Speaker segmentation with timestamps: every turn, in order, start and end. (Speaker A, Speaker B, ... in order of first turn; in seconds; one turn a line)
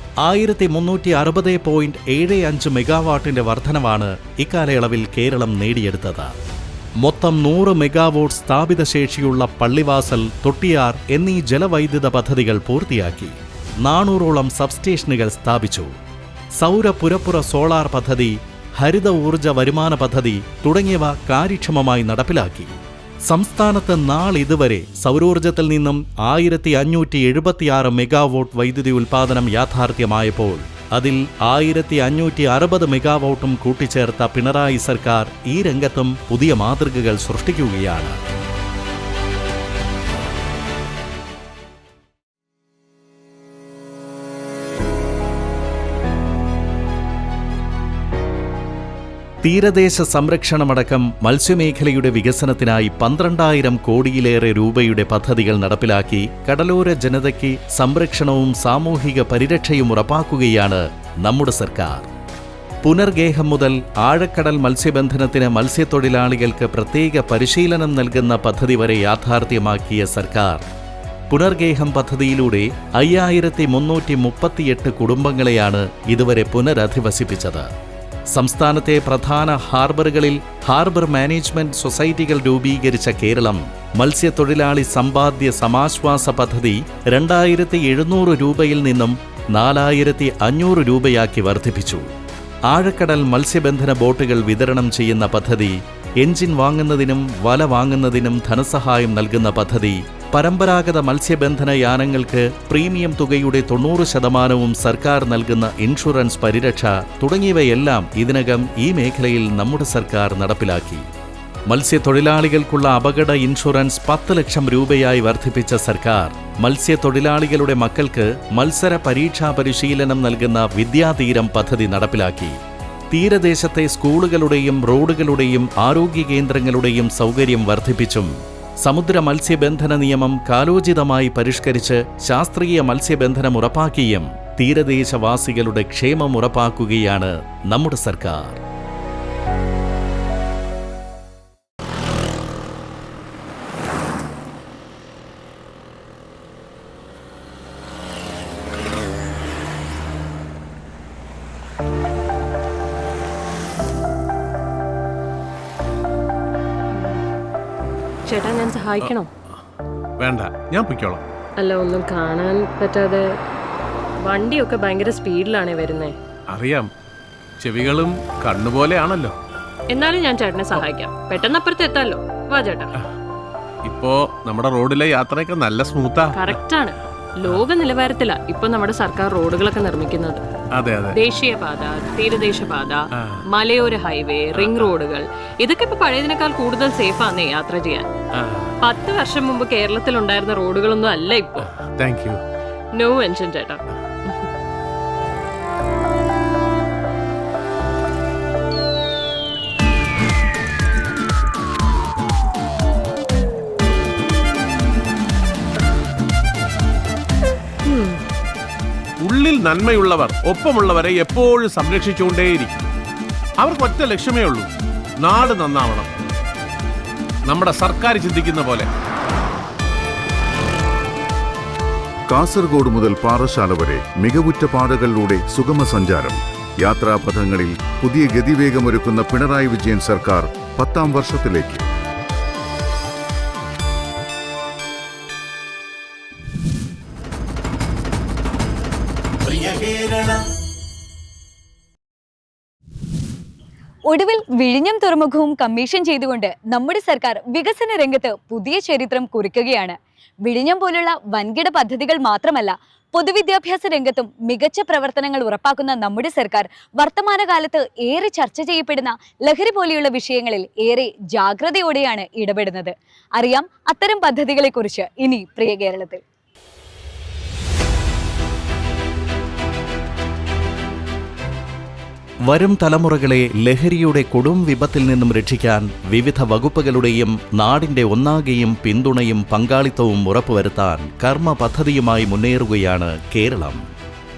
Speaker A: 0.2-6.3
Speaker A: 7.0-15.9
Speaker A: 16.6-22.8
Speaker A: 23.3-38.2
Speaker A: 49.4-62.1
Speaker A: 62.8-70.6
Speaker A: 71.3-77.7
Speaker A: 78.3-92.0
Speaker A: 92.7-111.1
Speaker A: 111.7-122.6
Speaker A: 123.1-138.6
Speaker B: 156.9-157.2
Speaker B: 158.2-159.3
Speaker C: 160.2-161.2
Speaker B: 161.6-163.3
Speaker B: 164.2-166.2
Speaker C: 166.5-166.9
Speaker C: 167.6-169.3
Speaker B: 169.9-172.9
Speaker C: 173.8-176.6
Speaker B: 176.3-180.4
Speaker C: 180.7-181.2
Speaker B: 181.1-188.1
Speaker C: 184.5-185.0
Speaker C: 188.4-188.7
Speaker B: 188.8-191.7
Speaker C: 191.8-192.4
Speaker B: 192.9-194.4
Speaker C: 209.2-212.8
Speaker C: 213.6-216.1
Speaker C: 217.4-218.9
Speaker D: 222.3-231.8
Speaker E: 244.1-266.2
Speaker A: 272.5-283.8